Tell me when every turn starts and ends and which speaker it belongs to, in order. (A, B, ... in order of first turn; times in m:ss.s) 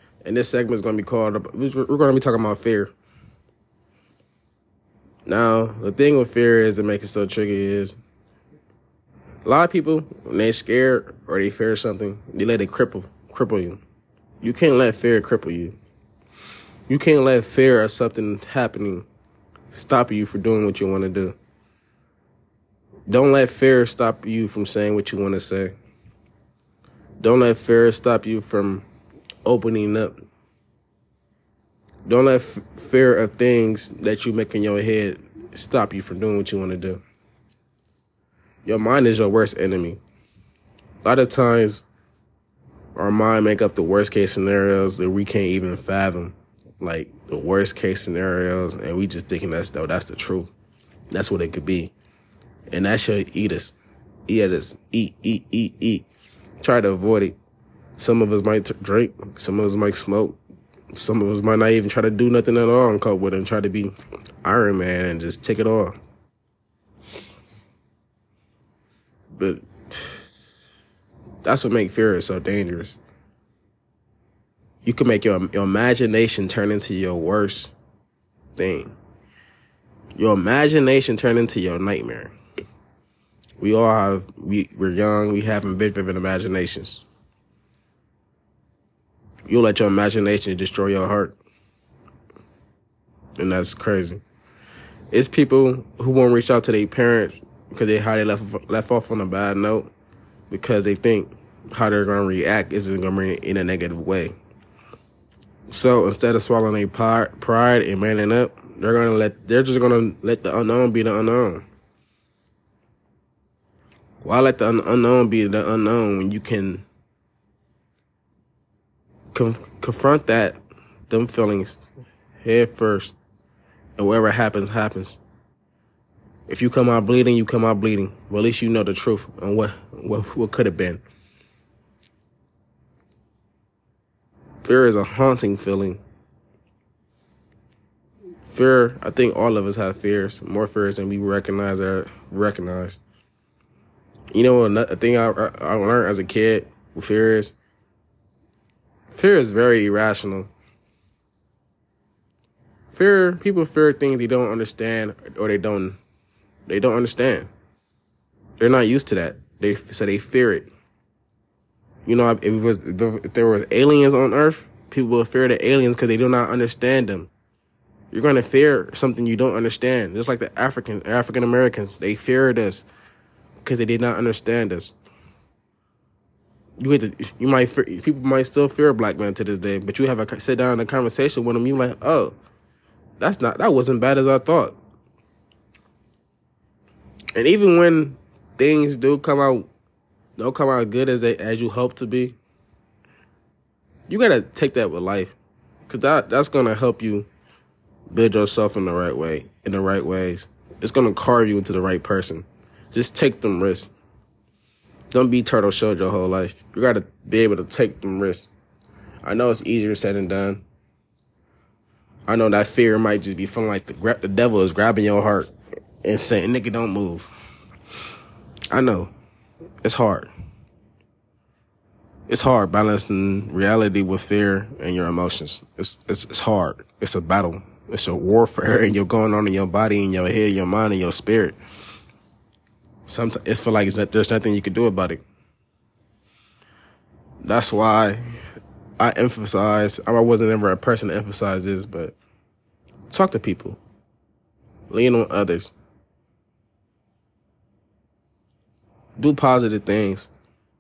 0:00.2-0:02.9 A
0:05.3-0:08.0 A
0:09.4-0:13.8 A
0:14.4-0:15.8 A
0:16.9-0:19.1 A
0:19.7-0:21.4 A
0:23.1-0:25.7 A
0:27.2-0:28.9 A
0:29.4-0:30.2 A
0:32.1-0:37.0 A
0:38.6-0:40.0 A
0:41.0-0:41.8 A
0:43.0-0:50.5 A
0:51.1-0:51.9 A
0:52.7-0:53.8 A
0:54.3-0:56.1 A
0:56.6-0:57.4 A
0:58.0-1:00.4 A
1:00.9-1:06.0 A
1:09.4-1:10.3 A
1:11.4-1:13.0 A
1:14.8-1:17.7 A
1:18.6-1:19.0 A
1:20.2-1:22.3 A
1:23.6-1:27.0 A
1:29.5-1:31.4 A
1:33.4-1:34.2 A
1:35.1-1:39.9 A
1:40.5-1:44.4 A
1:45.7-1:51.6 A
1:54.2-1:56.8 A
1:59.3-2:01.8 A
2:02.4-2:03.2 A
2:04.0-2:05.2 A
2:06.5-2:11.0 A
2:14.6-2:16.0 A
2:18.4-2:23.0 A
2:24.3-2:27.6 A
2:29.1-2:30.5 A
2:32.9-2:36.0 A
2:36.7-2:37.5 A
2:38.6-2:40.7 A
2:42.1-2:47.3 A
2:48.1-2:52.9 A
2:53.6-2:55.0 A
2:56.8-3:02.4 A
3:03.2-3:04.8 A
3:07.4-3:09.7 A
3:10.4-3:12.4 A
3:14.1-3:17.3 A
3:18.1-3:23.9 A
3:25.1-3:28.5 A
3:29.2-3:30.6 A
3:32.3-3:35.5 A
3:36.0-3:37.3 A
3:38.7-3:39.1 A
3:39.8-3:40.3 A
3:42.3-3:51.6 A
3:53.1-3:55.2 A
3:57.4-3:58.2 A
3:59.0-4:02.2 A
4:03.1-4:03.8 A
4:04.9-4:05.7 A
4:09.2-4:10.3 A